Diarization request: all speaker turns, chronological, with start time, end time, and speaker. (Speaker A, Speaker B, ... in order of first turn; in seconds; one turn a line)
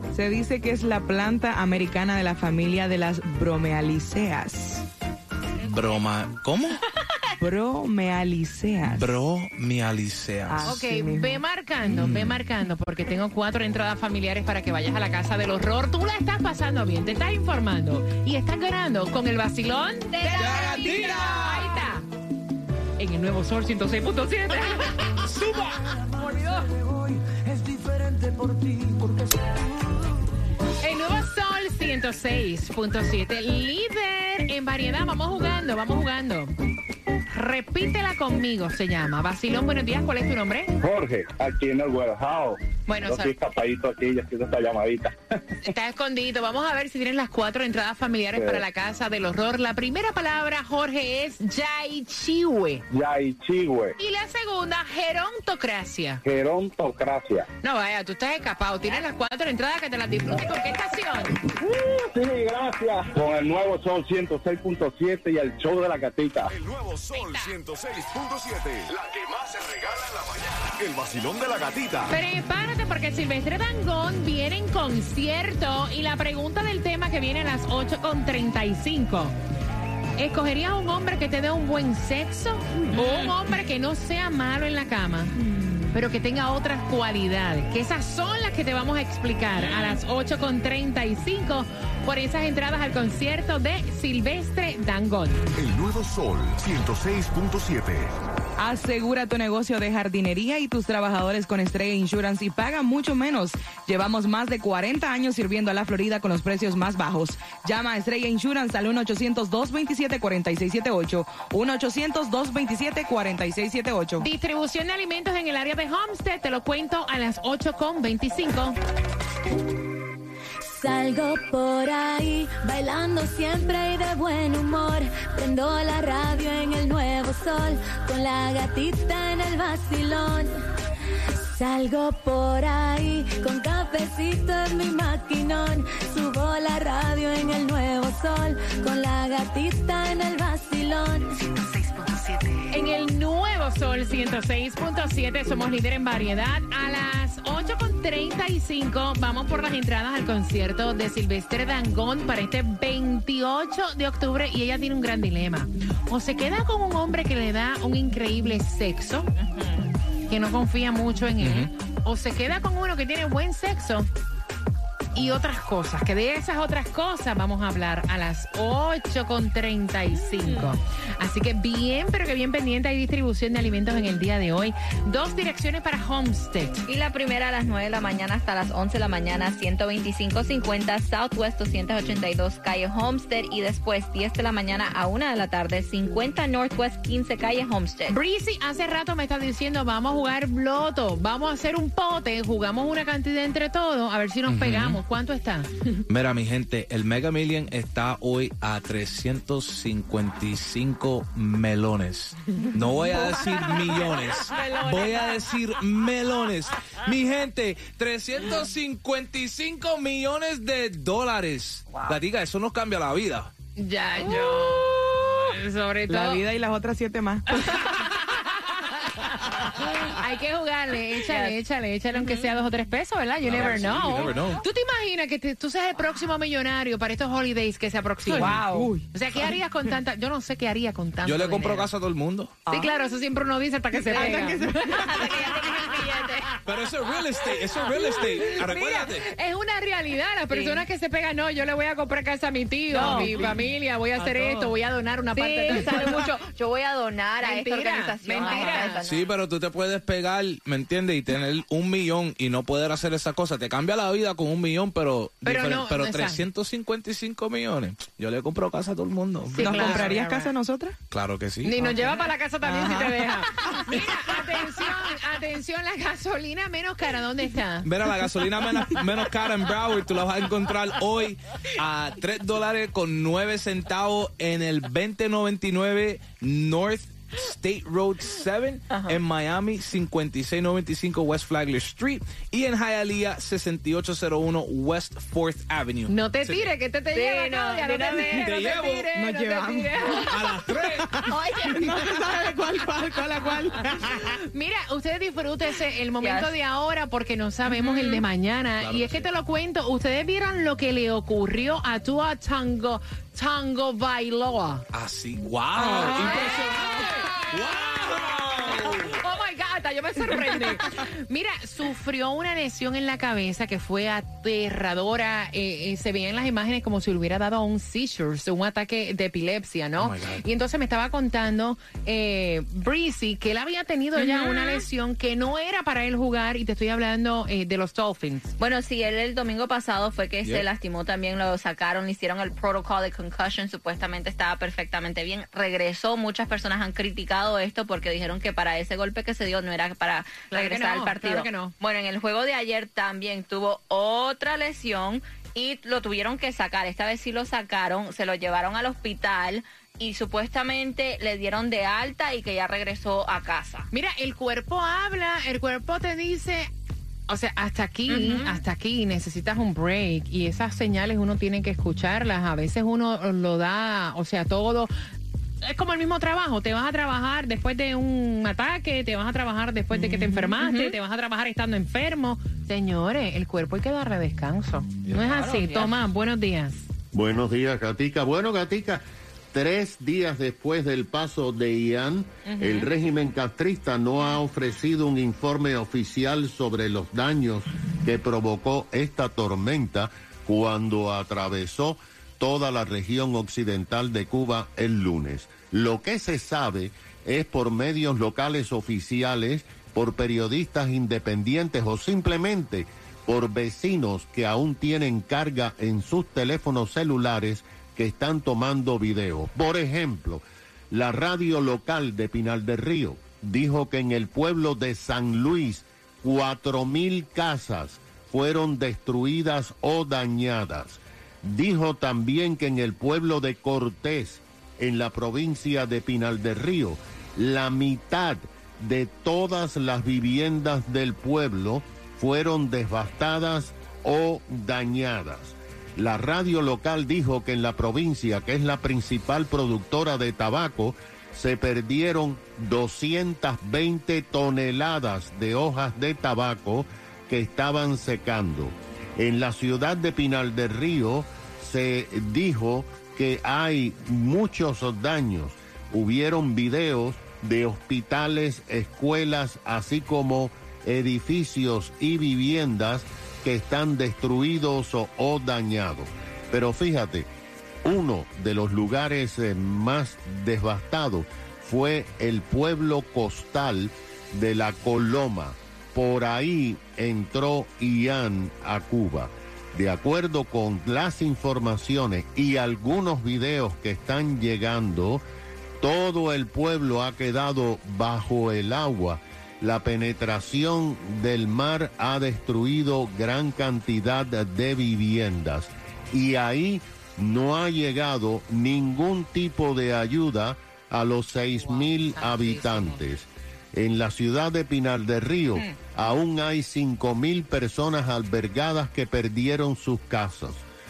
Speaker A: 0.1-4.9
Speaker B: 5.6-6.8
Speaker A: 7.4-9.2
Speaker B: 8.9-10.8
Speaker A: 10.5-11.4
Speaker C: 10.7-22.1
Speaker B: 11.8-12.4
Speaker D: 20.1-20.9
Speaker A: 20.2-21.5
Speaker B: 20.4-21.8
Speaker C: 23.0-25.2
Speaker B: 25.2-26.0
Speaker C: 26.2-26.6
Speaker C: 30.8-36.5
Speaker C: 37.3-40.7
Speaker E: 40.8-45.1
Speaker C: 42.9-43.4
Speaker C: 45.6-52.8
Speaker E: 48.4-48.6
Speaker E: 52.9-54.0
Speaker C: 54.0-56.2
Speaker E: 56.2-57.5
Speaker C: 57.6-61.3
Speaker E: 61.6-66.5
Speaker F: 66.5-72.2
Speaker C: 67.1-67.5
Speaker C: 72.1-79.3
Speaker C: 80.2-85.3
Speaker C: 85.9-95.4
Speaker F: 95.5-98.1
Speaker A: 98.6-114.2
Speaker C: 114.2-118.8
Speaker G: 120.8-130.5
Speaker G: 131.6-141.2
Speaker C: 141.5-159.3
Speaker D: 159.4-159.9
Speaker C: 160.3-164.1
Speaker B: 161.4-161.7
Speaker C: 165.2-176.8
Speaker D: 176.9-188.2
Speaker C: 188.1-195.7
Speaker B: 194.5-195.0
Speaker B: 196.1-213.5
Speaker C: 204.6-204.9
Speaker D: 211.9-212.2
Speaker C: 213.8-216.5
Speaker A: 216.1-217.4
Speaker C: 217.7-219.0
Speaker C: 219.6-228.6
Speaker D: 221.3-221.6
Speaker D: 222.1-222.5
Speaker B: 223.4-224.6
Speaker D: 223.5-223.9
Speaker A: 228.3-229.4
Speaker D: 228.3-228.9
Speaker C: 229.1-231.9
Speaker B: 231.2-232.6
Speaker C: 232.7-236.3
Speaker A: 233.9-235.3
Speaker D: 234.2-236.5
Speaker B: 236.7-239.3
Speaker C: 237.9-246.2
Speaker D: 240.5-240.9
Speaker D: 242.9-243.3
Speaker A: 243.0-243.6
Speaker D: 245.3-249.3
Speaker C: 247.4-249.0
Speaker B: 249.0-260.1
Speaker C: 255.5-256.4
Speaker C: 259.5-260.5
Speaker A: 259.6-261.0
Speaker B: 261.1-261.8
Speaker C: 261.6-267.9
Speaker A: 261.8-263.7
Speaker B: 267.8-286.7
Speaker D: 278.9-279.2
Speaker C: 286.1-290.4
Speaker D: 287.1-288.5
Speaker B: 288.4-289.1
Speaker A: 289.1-294.0
Speaker B: 290.2-291.2
Speaker D: 291.3-291.9
Speaker C: 294.1-304.9
Speaker D: 296.2-296.5
Speaker D: 297.7-298.2
Speaker B: 298.8-299.3
Speaker B: 304.9-309.0
Speaker C: 305.9-307.6
Speaker D: 305.9-306.5
Speaker C: 308.7-328.5
Speaker B: 320.0-320.4
Speaker D: 324.2-324.8
Speaker D: 328.6-353.9
Speaker C: 340.5-341.7
Speaker C: 353.9-356.7
Speaker C: 357.3-364.9
Speaker D: 358.1-358.6
Speaker C: 365.6-376.9
Speaker D: 369.9-370.9
Speaker D: 375.2-375.9
Speaker H: 377.1-467.3
Speaker C: 382.5-382.9
Speaker H: 467.9-485.2
Speaker H: 485.8-510.6
Speaker C: 501.5-503.0